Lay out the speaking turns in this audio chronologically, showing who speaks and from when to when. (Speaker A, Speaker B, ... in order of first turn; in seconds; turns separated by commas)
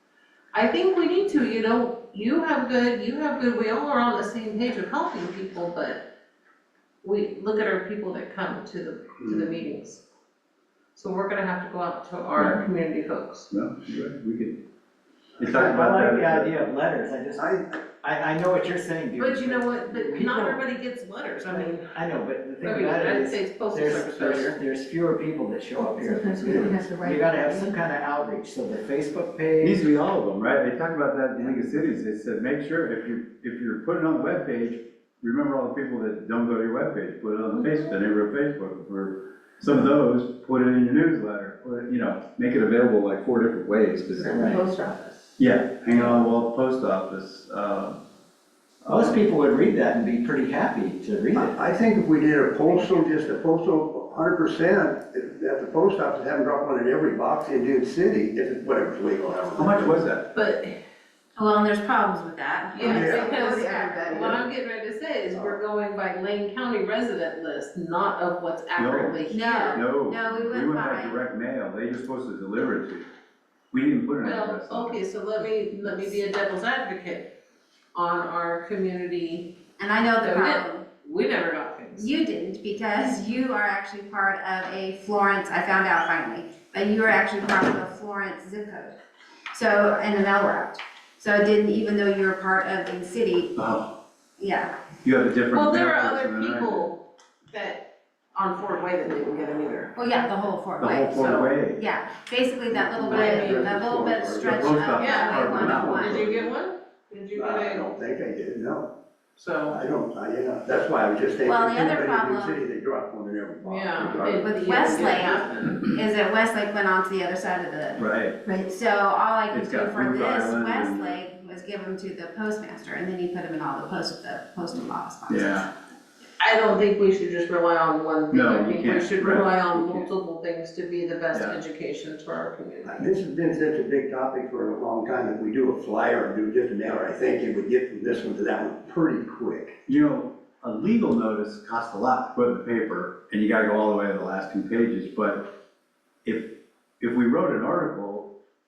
Speaker A: 0.5-6.0, Speaker A: 7.0-10.0, Speaker A: 10.9-13.5, Speaker B: 12.3-12.6, Speaker B: 13.5-14.6, Speaker B: 15.4-16.7, Speaker C: 15.5-20.6, Speaker D: 17.4-17.8, Speaker A: 19.2-22.0, Speaker C: 21.5-29.9, Speaker A: 22.6-24.6, Speaker E: 25.8-26.9, Speaker F: 26.5-27.6, Speaker B: 29.6-44.5, Speaker E: 44.2-45.4, Speaker C: 44.3-44.6, Speaker B: 45.4-48.0, Speaker B: 48.8-49.2, Speaker C: 48.8-51.6, Speaker D: 51.3-60.1, Speaker B: 59.6-60.2, Speaker A: 60.3-60.8, Speaker F: 61.4-64.3, Speaker A: 62.8-69.8, Speaker D: 62.8-63.3, Speaker D: 64.0-64.4, Speaker B: 68.8-73.1, Speaker F: 69.3-71.2, Speaker B: 73.7-75.0, Speaker A: 74.2-77.3, Speaker A: 77.9-79.6, Speaker F: 79.8-80.8, Speaker A: 80.2-82.1, Speaker F: 82.0-88.9, Speaker F: 89.5-93.6, Speaker B: 93.6-94.0, Speaker F: 94.4-94.7, Speaker B: 95.0-96.9, Speaker A: 95.5-97.8, Speaker A: 98.3-100.5, Speaker F: 100.0-106.2, Speaker B: 100.8-101.8, Speaker A: 101.1-101.5, Speaker D: 102.7-104.8, Speaker A: 103.1-103.6, Speaker B: 104.5-106.5, Speaker A: 104.9-107.8, Speaker D: 105.6-106.1, Speaker D: 107.3-108.9, Speaker A: 109.4-109.8, Speaker D: 109.7-115.3, Speaker F: 111.5-112.6, Speaker A: 113.6-115.9, Speaker F: 114.3-118.0, Speaker B: 118.0-118.4, Speaker E: 118.5-118.7, Speaker F: 118.6-125.5, Speaker B: 119.5-121.2, Speaker B: 125.3-125.7, Speaker A: 126.4-133.1, Speaker B: 128.3-130.1, Speaker D: 133.0-139.7, Speaker B: 139.9-145.5, Speaker B: 146.2-148.3